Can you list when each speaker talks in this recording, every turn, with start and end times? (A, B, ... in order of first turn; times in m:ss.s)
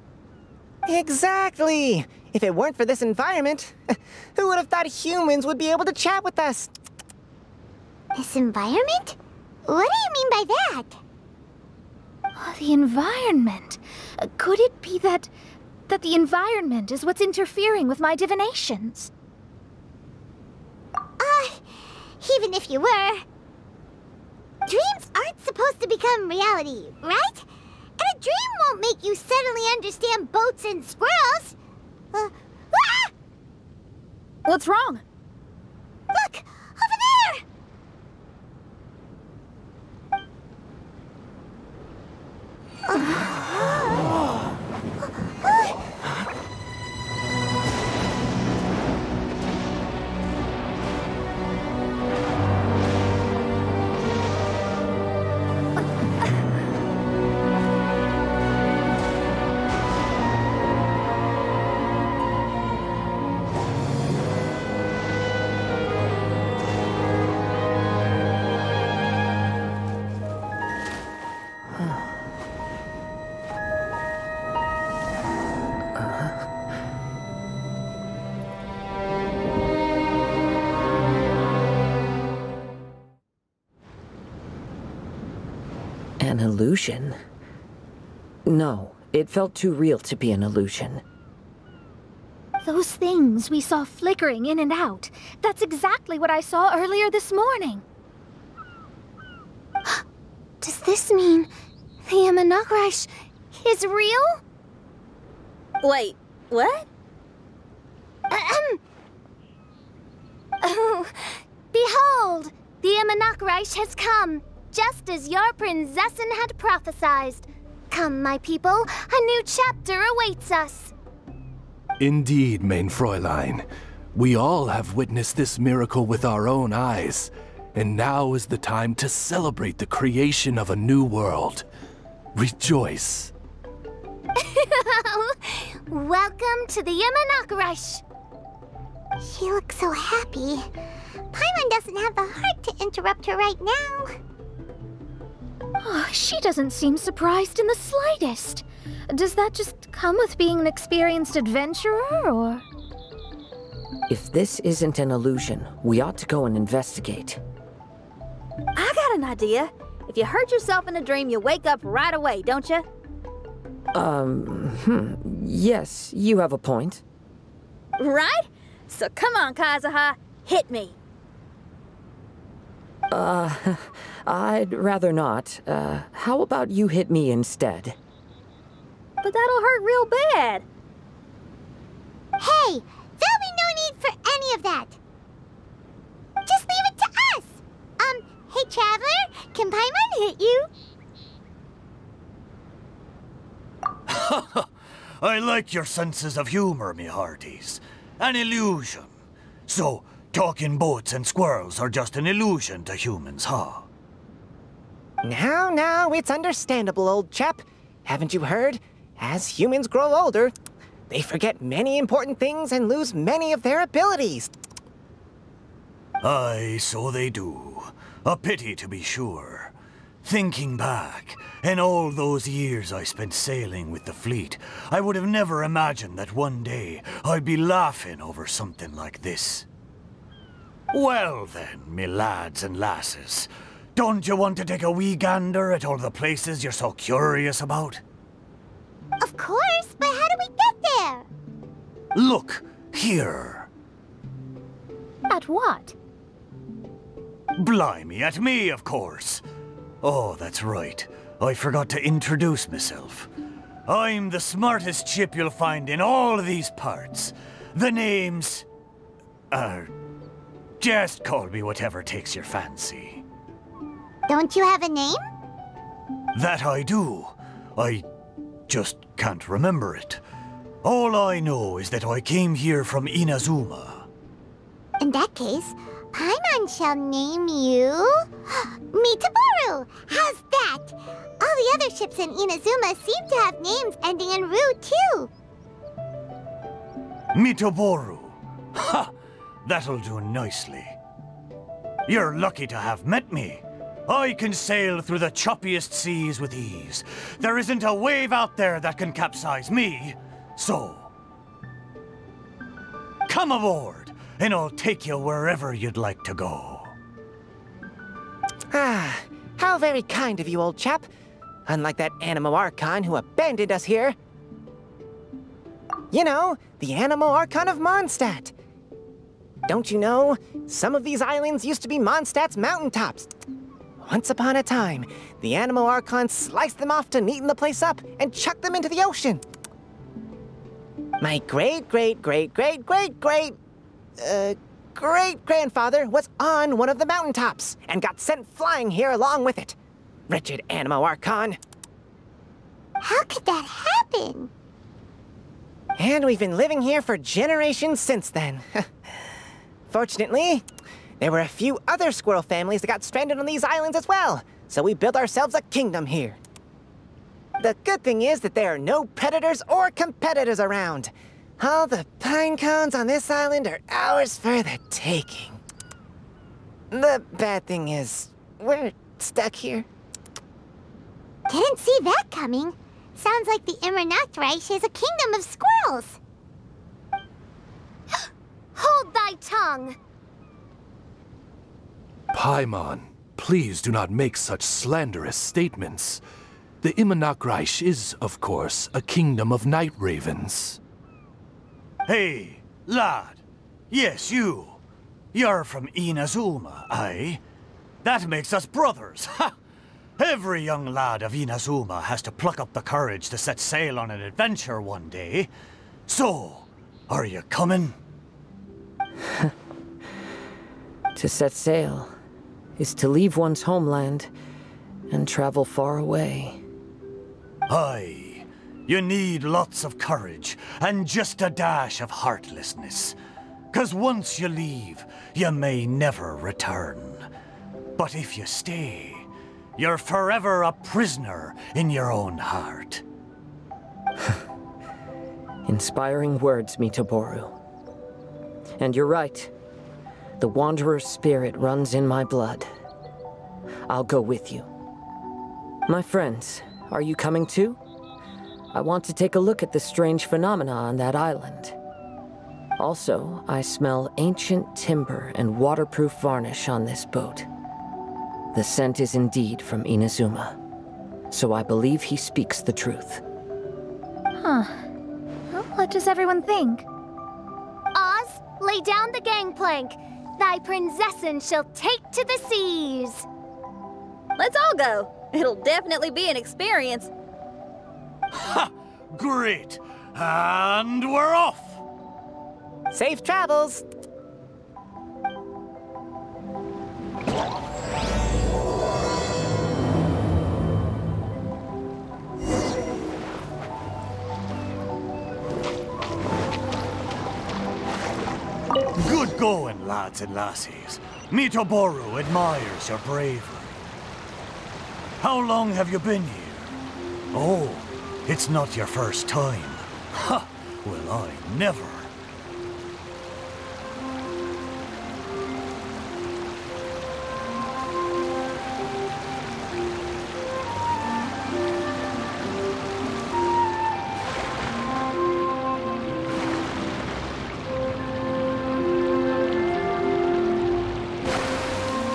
0:00.9-0:06.7 A
0:08.2-0:11.0 B
0:12.4-0:15.3 C
0:15.9-0:19.1 C
0:21.2-0:23.2 B
0:24.7-0:27.5 B
0:28.0-0:31.6 B
0:32.1-0:33.1 B
0:34.4-0:35.0 D
0:36.1-0:37.4 B
0:42.9-0:44.2 B
0:45.4-0:45.7 B
1:11.7-1:12.1 E
1:16.0-1:16.4 E
1:26.2-1:27.2 E
1:28.5-1:31.0 E
1:32.6-1:37.8 C
1:40.6-1:41.5 F
1:42.0-1:44.4 F
1:45.8-1:46.9 D
1:48.3-1:48.8 F
1:50.6-2:00.9 F
2:02.0-2:11.6 G
2:12.4-2:13.3 G
2:14.4-2:18.0 F
2:19.2-2:20.7 B
2:21.3-2:24.2 B
2:25.8-2:32.6 C
2:34.1-2:37.4 E
2:38.8-2:42.8 D
2:43.9-2:47.0 E
2:48.0-2:51.0 D
2:53.1-2:58.0 E
2:59.2-3:00.6 D
3:02.4-3:05.0 B
3:06.5-3:10.7 B
3:14.1-3:14.7 H
3:15.2-3:19.1 H
3:19.7-3:23.9 H
3:25.2-3:30.5 A
3:31.1-3:34.5 A
3:36.2-3:49.7 H
3:50.9-3:58.0 H
3:59.2-4:01.3 B
4:02.2-4:03.7 H
4:05.3-4:06.0 C
4:07.6-4:09.4 H
4:10.0-4:13.3 H
4:13.9-4:18.7 H
4:19.5-4:19.9 H
4:20.8-4:23.2 H
4:24.3-4:25.2 B
4:26.3-4:28.0 H
4:28.7-4:30.2 H
4:30.8-4:34.1 H
4:35.0-4:45.3 B
4:47.3-4:49.1 H
4:49.6-4:51.0 H
4:52.1-5:01.1 H
5:03.3-5:06.9 H
5:08.7-5:11.1 A
5:11.7-5:14.2 A
5:16.1-5:18.5 A
5:19.7-5:23.3 A
5:24.0-5:29.4 A
5:31.2-5:33.6 A
5:34.2-5:39.8 A
5:40.3-5:41.6 A
5:43.0-5:44.5 B
5:46.0-5:48.9 A
5:49.9-5:50.6 A
5:51.2-5:56.4 A
5:57.6-6:05.6 A
6:06.9-6:09.9 A
6:11.5-6:16.2 B
6:18.8-6:20.0 F
6:22.3-6:26.2 G
6:26.8-6:30.8 G
6:32.1-6:34.8 H
6:35.3-6:37.4 H
6:38.0-6:39.5 H
6:40.2-6:45.5 H
6:46.1-6:48.0 H
6:49.2-6:49.5 E
6:51.2-6:52.1 E
6:52.8-6:54.3 E
6:55.1-6:56.6 E
6:57.7-7:03.2 H
7:03.7-7:07.3 H
7:08.0-7:13.0 H
7:15.7-7:17.6 E
7:18.8-7:19.5 E
7:20.4-7:22.7 E
7:23.9-7:24.7 E
7:25.9-7:27.8 E
7:28.7-7:31.8 E
7:32.8-7:37.5 E
7:38.5-7:40.6 E
7:41.3-7:43.2 E
7:44.4-7:44.9 C
7:45.5-7:46.9 C
7:47.9-7:53.3 F
7:54.4-7:57.1 D
7:58.3-8:01.8 H
8:02.9-8:03.8 A
8:19.0-8:23.7 H
8:25.2-8:26.7 H
8:27.3-8:32.1 H